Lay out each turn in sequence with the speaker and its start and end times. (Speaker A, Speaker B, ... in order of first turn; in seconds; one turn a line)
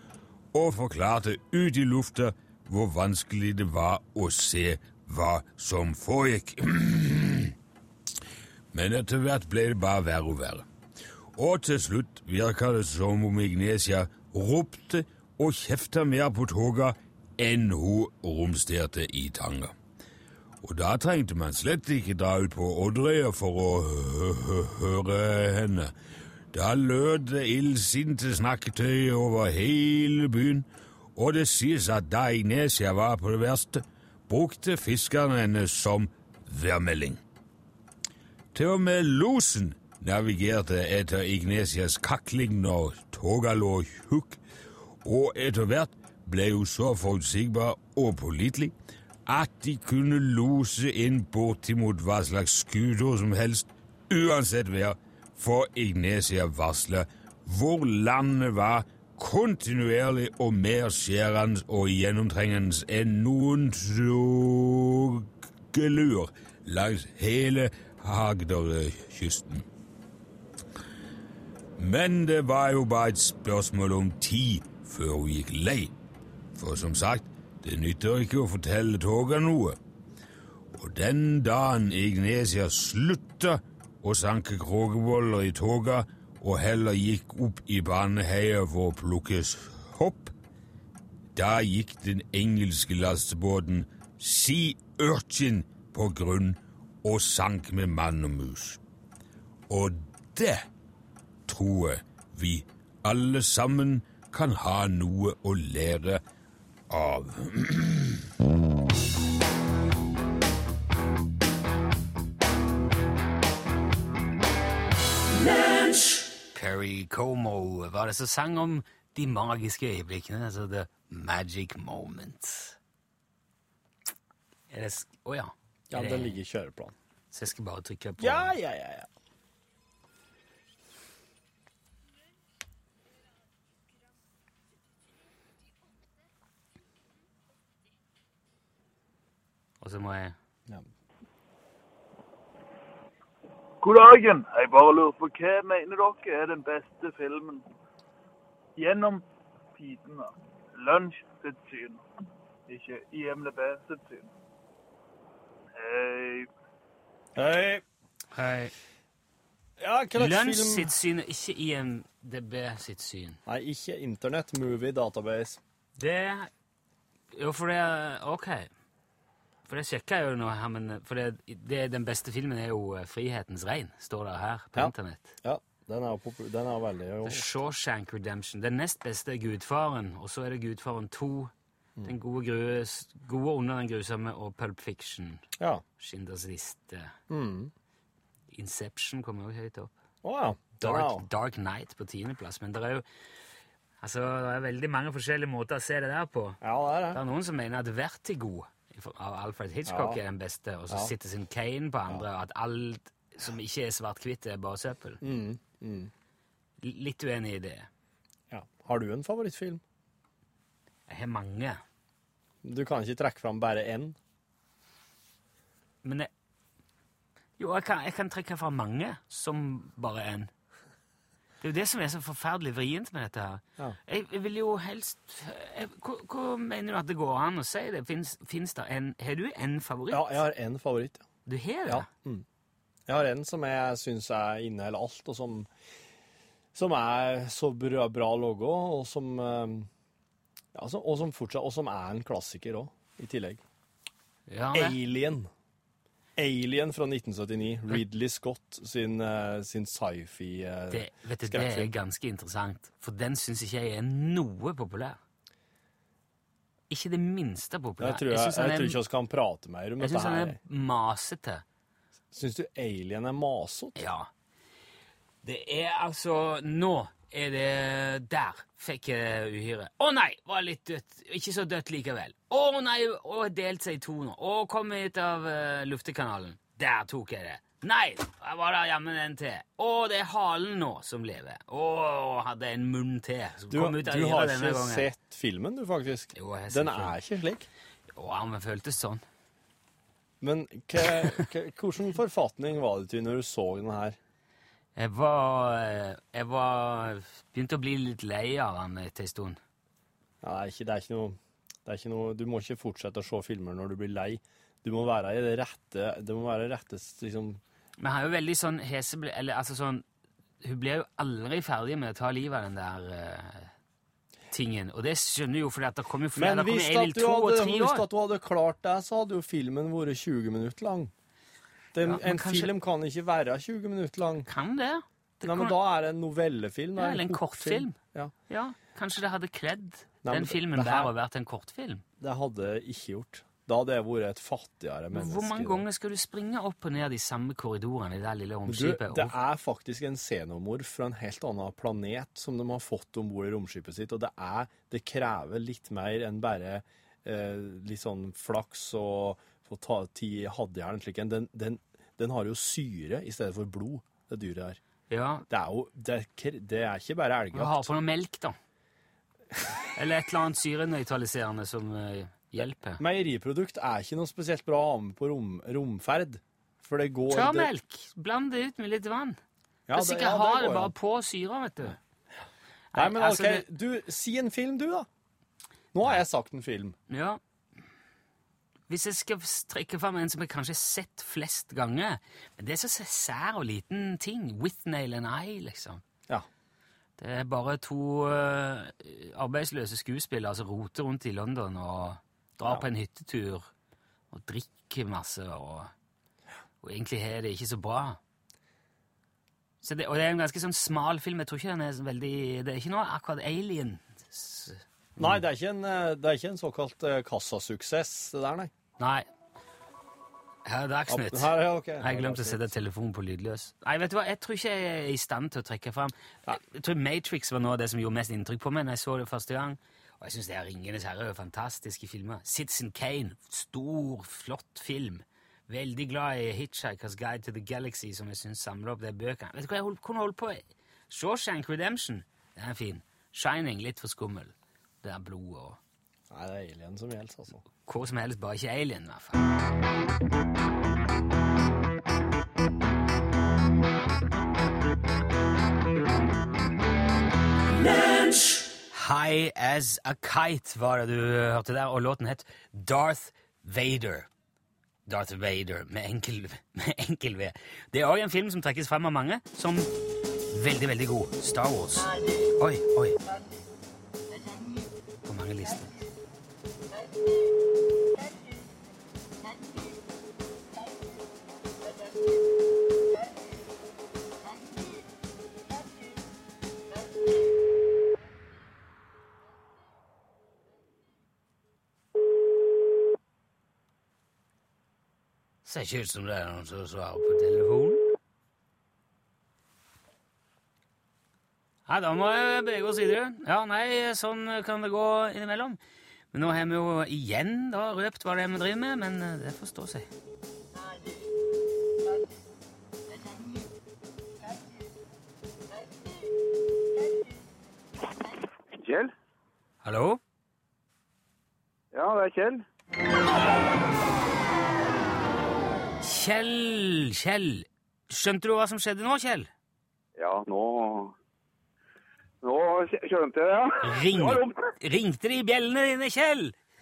Speaker A: 0.5-7.5
Speaker A: 8.7-10.7
Speaker A: 11.3-19.7
Speaker A: 20.6-25.9
Speaker A: 26.5-37.2
Speaker A: 38.5-44.4
Speaker A: 45.0-48.7
Speaker A: 49.2-69.7
Speaker A: 71.8-75.9
Speaker A: 76.5-79.8
Speaker A: 80.7-90.3
Speaker A: 91.3-98.8
Speaker A: 99.7-100.7
Speaker A: 101.5-106.2
Speaker A: 106.9-108.2
Speaker B: 116.5-122.8
Speaker B: 124.7-126.4
Speaker C: 125.9-126.9
Speaker B: 127.3-128.5
Speaker C: 128.2-129.1
Speaker B: 139.8-140.3
Speaker D: 143.8-147.6
Speaker D: 148.8-149.2
Speaker D: 149.7-152.0
Speaker D: 152.7-154.3
Speaker D: 155.8-156.5
Speaker C: 157.3-157.8
Speaker B: 158.3-158.7
Speaker C: 159.8-160.9
Speaker B: 160.1-163.4
Speaker C: 163.4-165.6
Speaker B: 166.0-166.5
Speaker B: 167.3-168.7
Speaker B: 169.7-175.3
Speaker C: 174.7-177.4
Speaker B: 177.2-181.5
Speaker B: 182.0-185.4
Speaker B: 186.0-187.1
Speaker C: 187.3-187.7
Speaker B: 188.5-189.9
Speaker C: 190.2-191.2
Speaker B: 190.8-193.0
Speaker B: 194.0-196.6
Speaker C: 196.6-197.2
Speaker B: 197.1-205.2
Speaker C: 199.8-200.2
Speaker C: 205.2-206.1
Speaker B: 206.8-207.9
Speaker C: 208.5-209.8
Speaker B: 211.1-211.8
Speaker C: 212.6-214.2
Speaker B: 216.0-216.3
Speaker B: 217.6-220.5
Speaker B: 221.6-230.4
Speaker C: 230.1-231.2
Speaker B: 231.4-232.1
Speaker C: 231.8-232.4
Speaker C: 233.1-235.7
Speaker C: 236.7-239.9
Speaker C: 240.7-243.6
Speaker B: 244.5-245.0
Speaker C: 244.7-245.5
Speaker C: 246.4-251.9
Speaker B: 250.9-255.2
Speaker B: 256.9-259.0
Speaker C: 258.0-260.6
Speaker B: 260.0-261.6
Speaker C: 262.3-264.0
Speaker B: 263.9-264.3
Speaker B: 265.4-285.1
Speaker C: 283.7-287.7
Speaker B: 286.3-287.2
Speaker B: 288.1-289.2
Speaker C: 290.4-294.2
Speaker B: 294.9-299.6
Speaker C: 300.4-307.6
Speaker B: 308.0-310.0
Speaker B: 310.6-313.7
Speaker B: 314.5-318.0
Speaker C: 316.4-321.1
Speaker C: 321.9-324.5
Speaker B: 322.0-322.7
Speaker B: 324.5-325.8
Speaker C: 325.4-328.3
Speaker B: 327.0-328.0
Speaker B: 328.5-332.0
Speaker C: 330.2-331.1
Speaker C: 332.2-335.8
Speaker B: 335.1-339.4
Speaker C: 338.7-354.8
Speaker B: 355.1-355.4
Speaker C: 355.5-357.9
Speaker B: 357.5-358.6
Speaker B: 359.9-363.0
Speaker C: 363.0-367.7
Speaker B: 367.3-369.4
Speaker C: 369.9-370.9
Speaker B: 369.9-372.0
Speaker B: 372.9-373.6
Speaker C: 372.9-375.1
Speaker C: 375.9-377.0
Speaker B: 377.1-377.4
Speaker B: 378.9-386.0
Speaker B: 387.2-393.7
Speaker B: 394.3-395.9
Speaker B: 396.8-398.2
Speaker B: 399.8-405.3
Speaker C: 405.2-408.7
Speaker B: 409.0-409.3
Speaker B: 410.6-435.8
Speaker C: 411.1-412.7
Speaker C: 436.3-437.6
Speaker B: 437.9-439.4
Speaker B: 448.9-454.3
Speaker B: 455.1-459.9
Speaker B: 460.5-463.2
Speaker B: 465.2-465.9
Speaker B: 485.6-488.0
Speaker B: 491.9-495.8
Speaker B: 496.3-500.1
Speaker E: 508.8-509.1
Speaker B: 509.8-510.2
Speaker E: 511.9-512.6
Speaker B: 516.0-519.5
Speaker E: 520.2-521.1
Speaker E: 522.4-524.5
Speaker B: 523.8-526.5